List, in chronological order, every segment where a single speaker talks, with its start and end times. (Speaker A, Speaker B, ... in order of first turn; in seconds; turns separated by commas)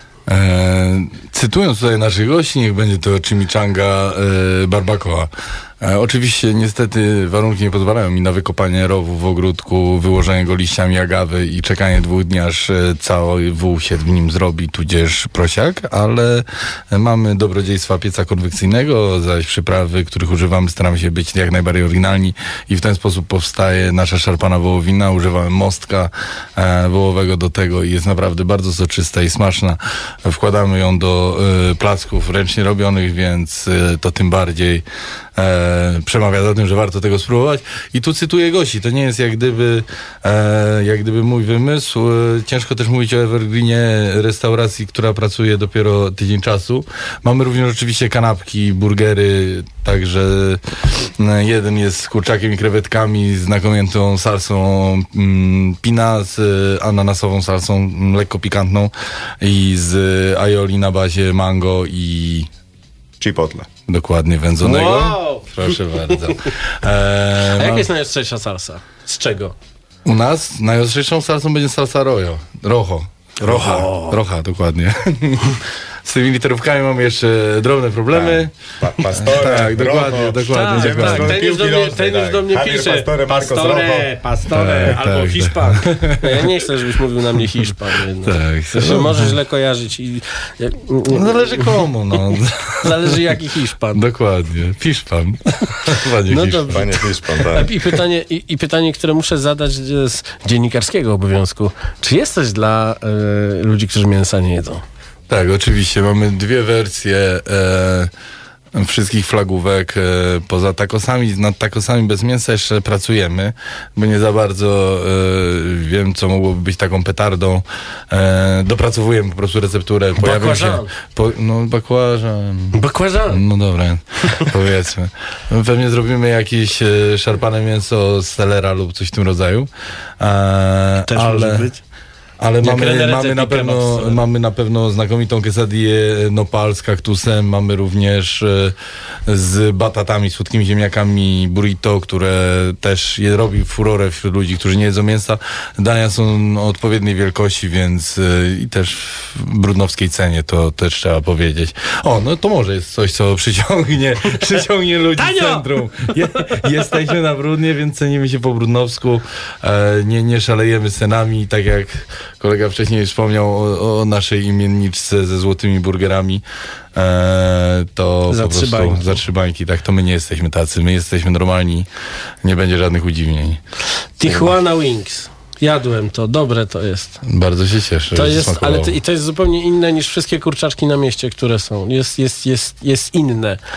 Speaker A: 0.3-34.8, Speaker A: 35.4-62.5, Speaker B: 63.2-63.7, Speaker A: 63.9-67.9, Speaker C: 64.6-65.5, Speaker C: 67.6-69.5, Speaker A: 70.0-78.5, Speaker C: 73.4-74.2, Speaker B: 78.1-84.2, Speaker A: 79.1-81.4, Speaker C: 80.5-91.7, Speaker A: 84.5-86.3, Speaker A: 88.2-89.3, Speaker A: 91.1-93.1, Speaker C: 92.8-94.0, Speaker A: 93.9-96.8, Speaker C: 96.3-96.8, Speaker B: 96.7-97.9, Speaker C: 97.5-104.8, Speaker A: 105.3-108.1, Speaker A: 108.7-122.8, Speaker C: 120.2-120.9, Speaker C: 122.7-123.4, Speaker A: 123.3-129.7, Speaker A: 130.2-131.7, Speaker C: 131.0-131.8, Speaker A: 132.4-138.7, Speaker C: 132.6-134.2, Speaker A: 139.3-166.4, Speaker C: 155.2-155.7, Speaker A: 166.9-171.9, Speaker C: 168.3-169.2, Speaker A: 172.4-173.6, Speaker C: 174.2-177.2, Speaker A: 174.2-174.5, Speaker A: 177.2-178.9, Speaker C: 178.1-183.6